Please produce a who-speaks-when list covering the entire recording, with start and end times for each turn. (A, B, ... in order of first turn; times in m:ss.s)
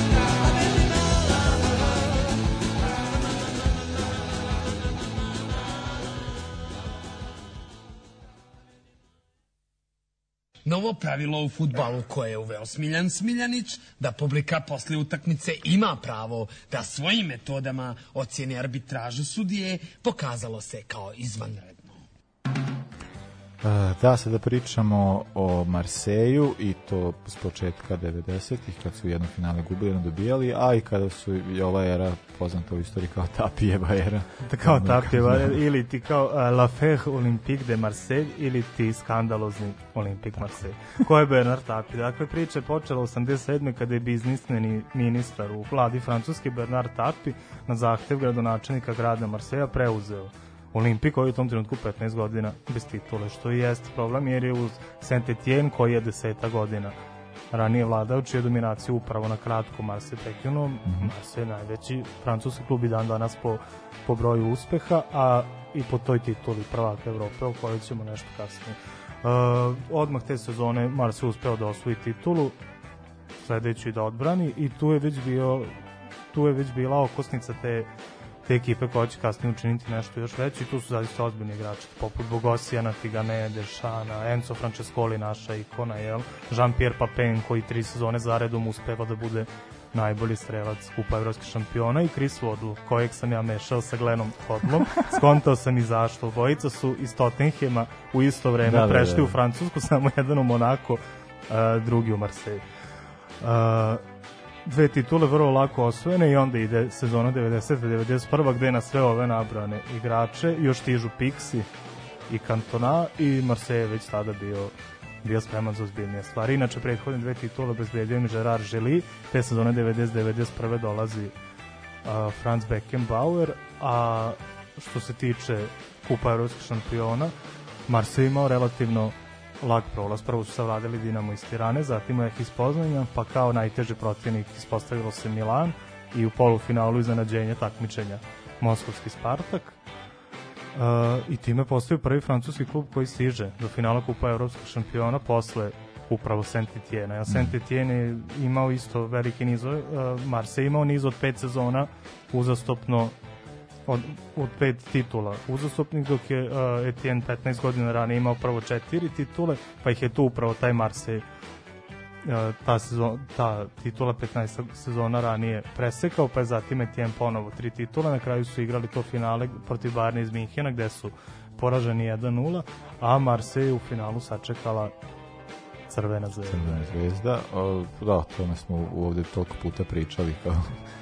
0:10.6-0:22.0 A
0:23.6-0:35.6 B
0:34.4-0:57.0 C
0:57.5-1:12.6 C
1:00.9-1:01.1 B
1:13.4-1:15.7 C
1:16.3-1:17.9 C
1:18.4-1:42.6 C
1:38.6-1:39.4 B
1:43.4-1:44.0 C
1:44.6-1:51.7 C
1:52.3-2:01.4 C
2:02.0-2:07.3 C
2:07.9-2:19.8 C
2:20.7-2:33.2 C
2:33.9-2:41.2 C
2:42.2-2:54.9 C
2:55.9-2:56.9 C
2:56.5-3:00.8 B